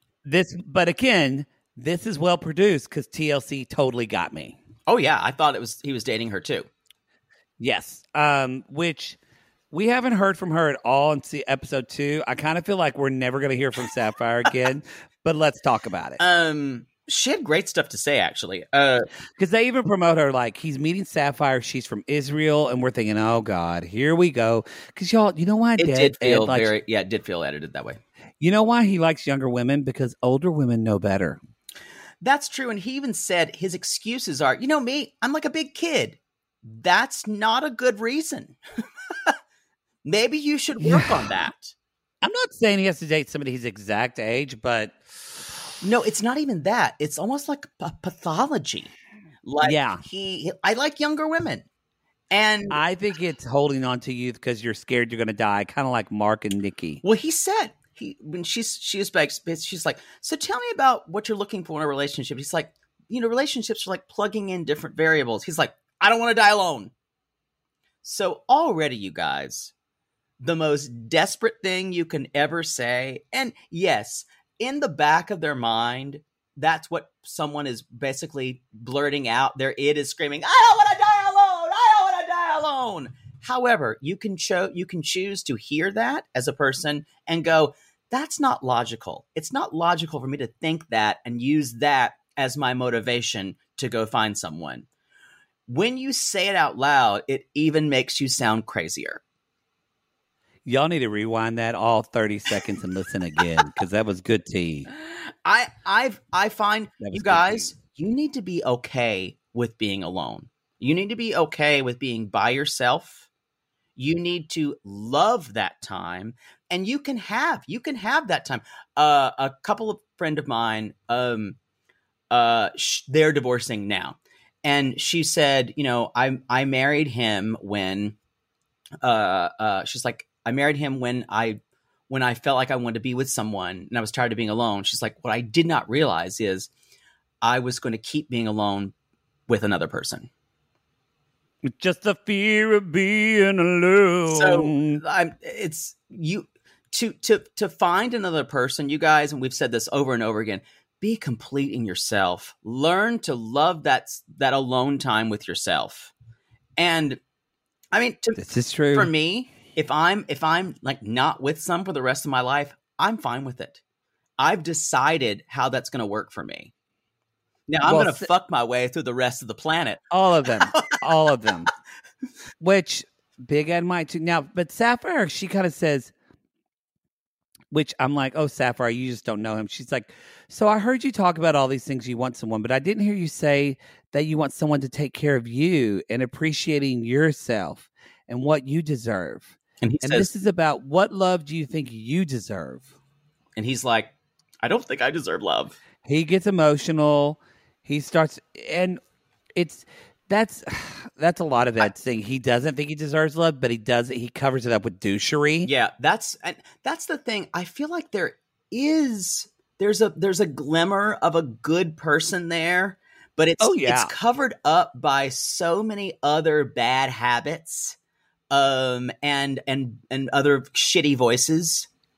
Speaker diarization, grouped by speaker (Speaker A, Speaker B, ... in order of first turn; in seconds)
Speaker A: 0.2-4.6, 7.6-9.2, 9.7-16.2, 19.4-26.7, 28.4-31.4, 40.8-41.3, 42.2-45.0, 49.6-50.0, 52.7-57.0, 100.7-104.9, 107.0-107.7, 141.8-145.0, 158.4-159.1, 167.8-168.3, 170.1-171.7, 172.6-176.1, 177.7-192.8, 196.1-199.0, 199.6-205.7, 213.6-214.1
Speaker B: 4.9-6.7, 16.2-19.1, 25.8-28.0, 32.2-38.6, 40.0-41.7, 45.8-48.9, 49.4-51.6, 52.3-52.8, 57.0-66.9, 68.0-69.7, 70.4-94.9, 95.7-99.2, 104.9-113.2, 114.0-121.6, 122.3-128.2, 129.0-136.7, 137.4-138.9, 139.5-140.3, 144.3-156.1, 156.8-157.2, 157.9-158.4, 158.9-163.8, 164.4-166.7, 167.7-171.0, 189.8-190.3, 193.6-195.8, 205.7-218.0, 218.5-221.9